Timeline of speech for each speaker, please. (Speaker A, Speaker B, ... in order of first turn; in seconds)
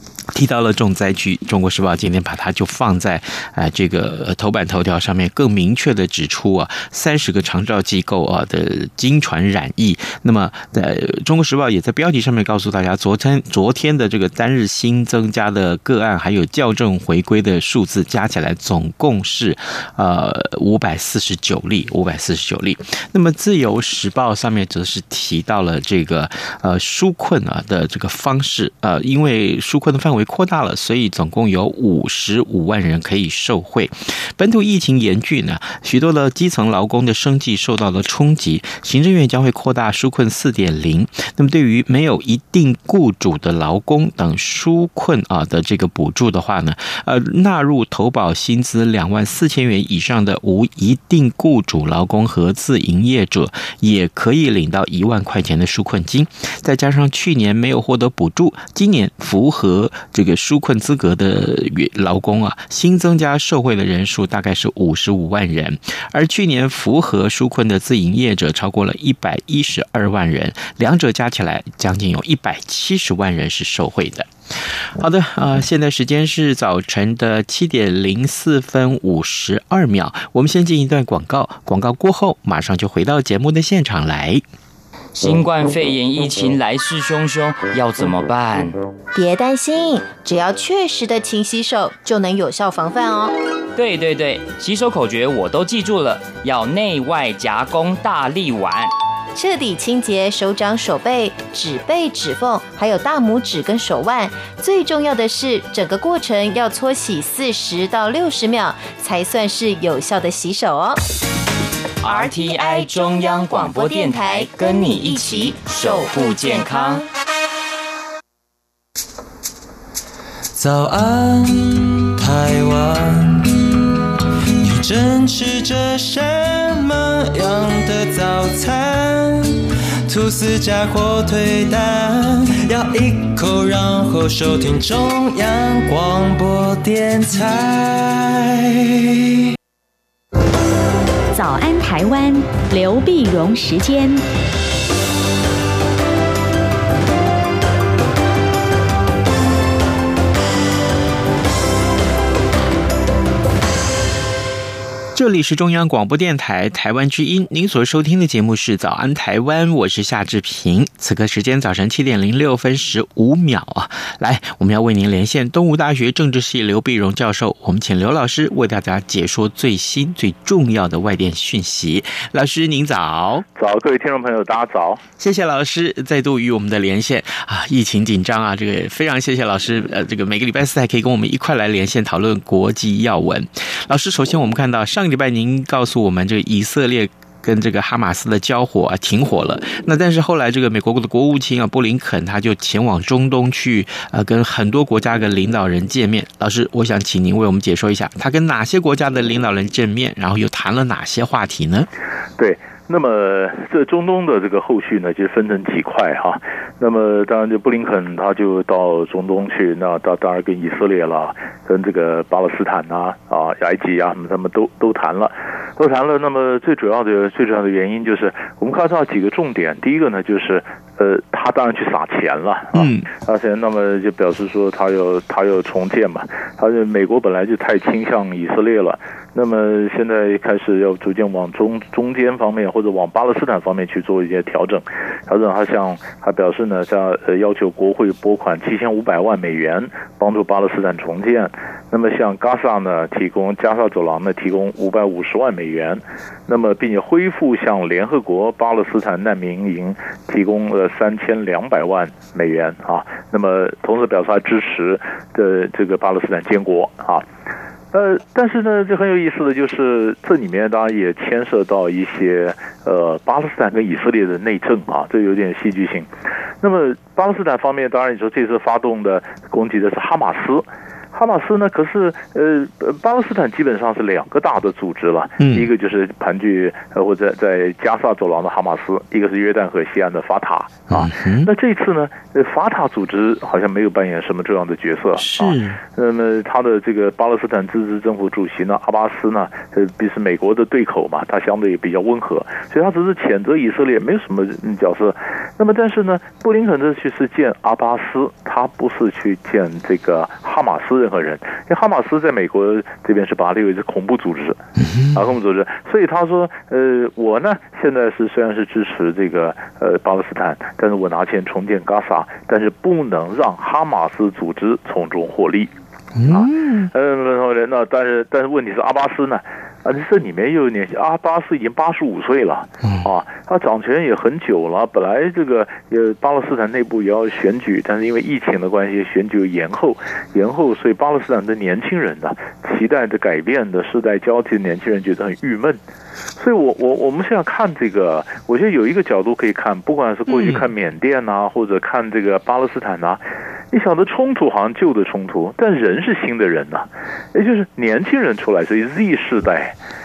Speaker A: 0.3-74.3, 75.0-84.4, 155.1-173.4, 175.2-201.9, 222.7-223.1, 275.4-275.7, 280.9-281.5, 285.1-285.8, 304.8-305.2, 316.1-316.9, 322.8-323.1, 340.3-340.6
Speaker B: 85.1-88.8, 93.8-98.9, 112.0-117.0
Speaker C: 89.1-93.3, 99.3-111.0, 112.1-112.6, 113.9-114.5, 115.0-115.4
Speaker D: 120.5-123.5, 124.6-139.1
Speaker E: 141.3-144.2
Speaker F: 173.6-175.0, 202.4-257.2, 257.9-266.1, 266.6-304.6, 305.1-315.7, 316.3-335.8, 336.4-349.7